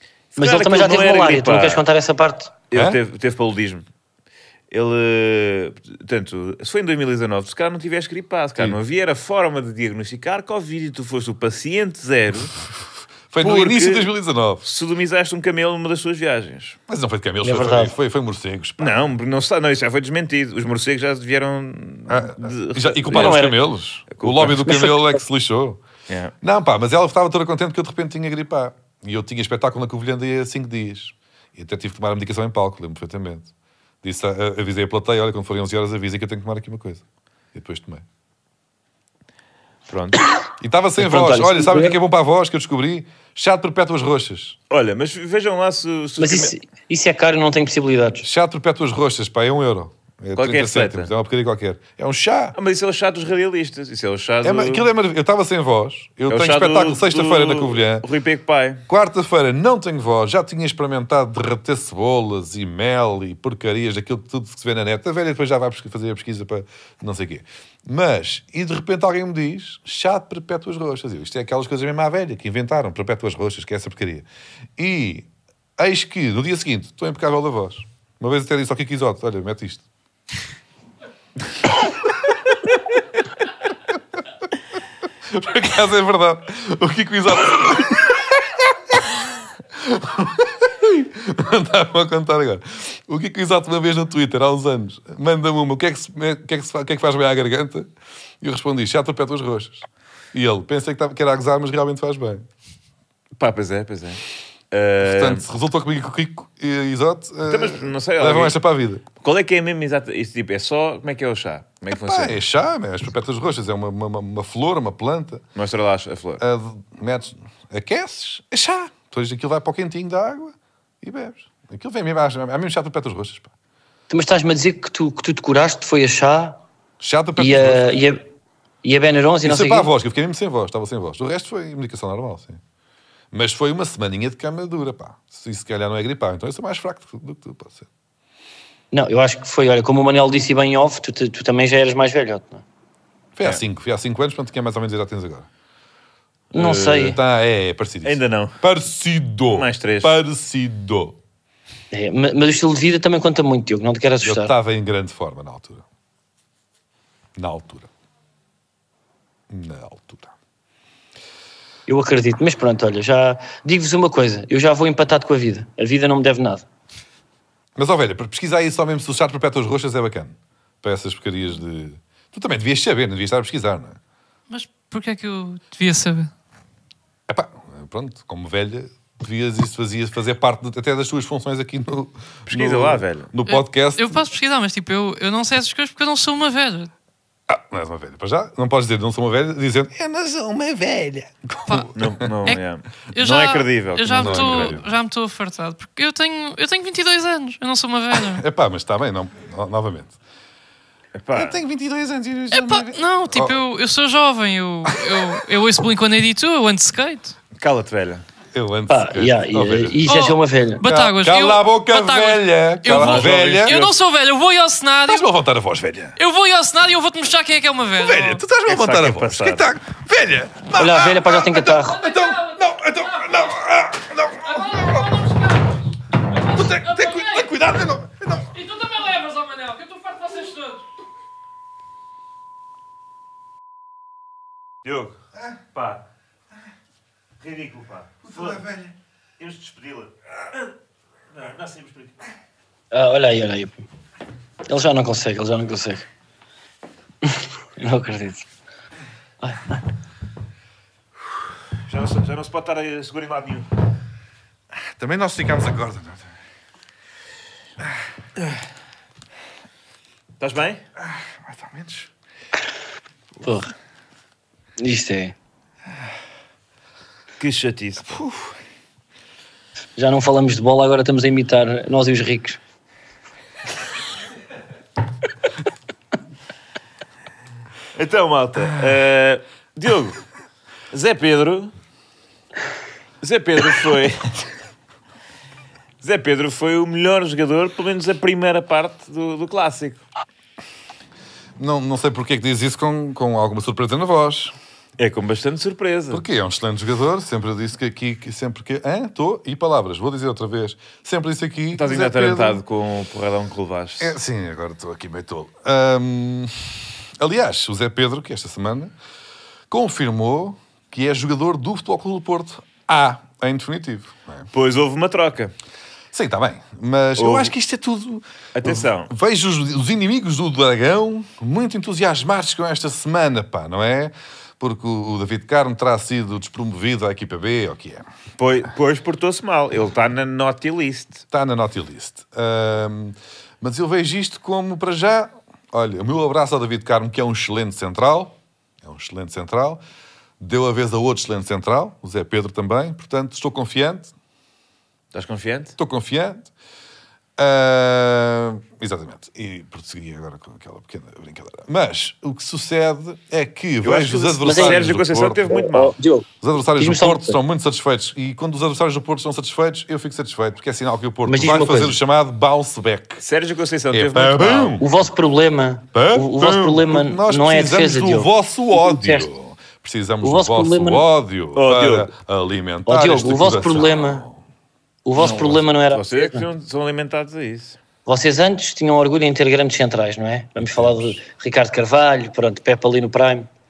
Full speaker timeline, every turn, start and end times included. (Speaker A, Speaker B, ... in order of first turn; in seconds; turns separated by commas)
Speaker A: 0.3-1.9, Speaker B: 0.4-2.5, Speaker A: 2.7-3.9, Speaker C: 2.7-3.0, Speaker A: 4.7-12.6, Speaker C: 13.3-14.6, Speaker A: 13.4-14.1, Speaker A: 14.6-16.8, Speaker C: 16.9-19.0, Speaker B: 17.4-17.9, Speaker A: 18.8-24.6, Speaker C: 22.1-25.8, Speaker B: 23.1-23.6, Speaker B: 24.5-25.2, Speaker C: 26.4-33.5, Speaker C: 34.0-37.0, Speaker C: 37.5-38.0, Speaker A: 39.9-40.2, Speaker C: 40.6-44.6, Speaker B: 41.0-42.0, Speaker A: 44.7-46.5, Speaker B: 46.2-48.2, Speaker C: 48.2-52.5, Speaker A: 50.4-51.1, Speaker A: 52.5-54.9, Speaker C: 54.4-58.1, Speaker A: 56.3-58.8, Speaker C: 58.9-74.3, Speaker C: 74.8-79.8, Speaker C: 85.3-89.1, Speaker C: 89.8-97.9, Speaker C: 98.4-102.5, Speaker A: 103.4-105.4, Speaker C: 105.0-109.0, Speaker A: 107.5-108.5, Speaker A: 109.2-112.4, Speaker C: 111.9-115.4, Speaker A: 115.6-116.4, Speaker C: 116.4-123.5, Speaker B: 124.1-126.6, Speaker C: 127.0-127.8, Speaker B: 127.4-128.2, Speaker B: 128.8-129.9, Speaker C: 129.4-132.6, Speaker C: 133.3-137.9, Speaker B: 138.9-142.6, Speaker C: 143.4-145.5, Speaker A: 146.5-147.1, Speaker B: 146.5-147.2, Speaker C: 146.9-151.2, Speaker A: 148.0-148.6, Speaker A: 149.5-150.1, Speaker B: 151.9-154.5, Speaker C: 154.2-155.8, Speaker C: 157.4-157.9, Speaker C: 159.5-160.3, Speaker B: 161.9-166.7, Speaker C: 167.8-174.0, Speaker D: 174.5-176.3, Speaker C: 177.3-184.2, Speaker A: 182.5-183.3, Speaker D: 183.5-186.9, Speaker C: 187.5-192.3, Speaker D: 191.7-191.9, Speaker A: 191.9-194.8, Speaker D: 193.1-198.4, Speaker C: 194.1-194.9, Speaker C: 198.1-200.1, Speaker A: 201.2-201.6, Speaker C: 201.3-203.6, Speaker D: 202.5-207.4, Speaker A: 207.6-208.2, Speaker C: 208.5-210.1, Speaker B: 208.9-210.8, Speaker D: 210.1-215.2, Speaker C: 210.8-213.8, Speaker A: 212.9-214.0, Speaker C: 215.1-216.2, Speaker D: 216.2-218.4, Speaker C: 218.0-225.1, Speaker A: 218.7-219.7, Speaker B: 220.8-222.0, Speaker D: 221.8-223.6, Speaker D: 224.4-227.5, Speaker C: 226.4-228.5, Speaker D: 228.5-230.8, Speaker A: 234.8-235.2, Speaker A: 235.7-236.0, Speaker A: 237.4-238.7, Speaker C: 238.2-238.9, Speaker A: 239.4-240.1, Speaker A: 241.3-242.2, Speaker B: 242.9-243.8, Speaker B: 244.7-246.1, Speaker B: 247.2-248.4, Speaker B: 249.4-249.8, Speaker A: 251.9-253.7, Speaker C: 254.8-256.3, Speaker A: 260.4-260.8, Speaker C: 261.0-262.1, Speaker B: 263.4-263.7, Speaker B: 264.8-265.4, Speaker A: 267.4-268.2, Speaker C: 268.1-268.5, Speaker B: 270.0-272.6, Speaker A: 277.9-280.2, Speaker A: 280.9-281.7, Speaker A: 283.2-284.4, Speaker A: 286.0-290.0, Speaker C: 291.6-294.6, Speaker A: 295.0-296.2, Speaker C: 296.1-302.6, Speaker A: 301.7-304.1, Speaker C: 304.0-308.9, Speaker C: 309.7-314.5, Speaker A: 314.5-315.5, Speaker C: 316.1-328.1, Speaker A: 317.2-317.5, Speaker A: 318.6-319.1, Speaker A: 328.4-331.2, Speaker C: 331.3-339.8, Speaker C: 340.4-344.1, Speaker A: 345.1-345.8, Speaker C: 345.8-346.5, Speaker C: 347.4-355.6, Speaker A: 353.8-355.9, Speaker B: 354.4-354.8, Speaker B: 355.5-357.4, Speaker C: 356.4-363.2, Speaker B: 361.3-362.0, Speaker A: 363.2-364.8, Speaker C: 363.9-364.9, Speaker B: 364.8-369.3, Speaker C: 365.9-374.4, Speaker B: 370.2-371.0, Speaker A: 371.6-372.1, Speaker B: 372.9-374.2, Speaker B: 375.1-376.5, Speaker A: 375.2-377.8, Speaker B: 378.1-383.5, Speaker C: 380.7-381.2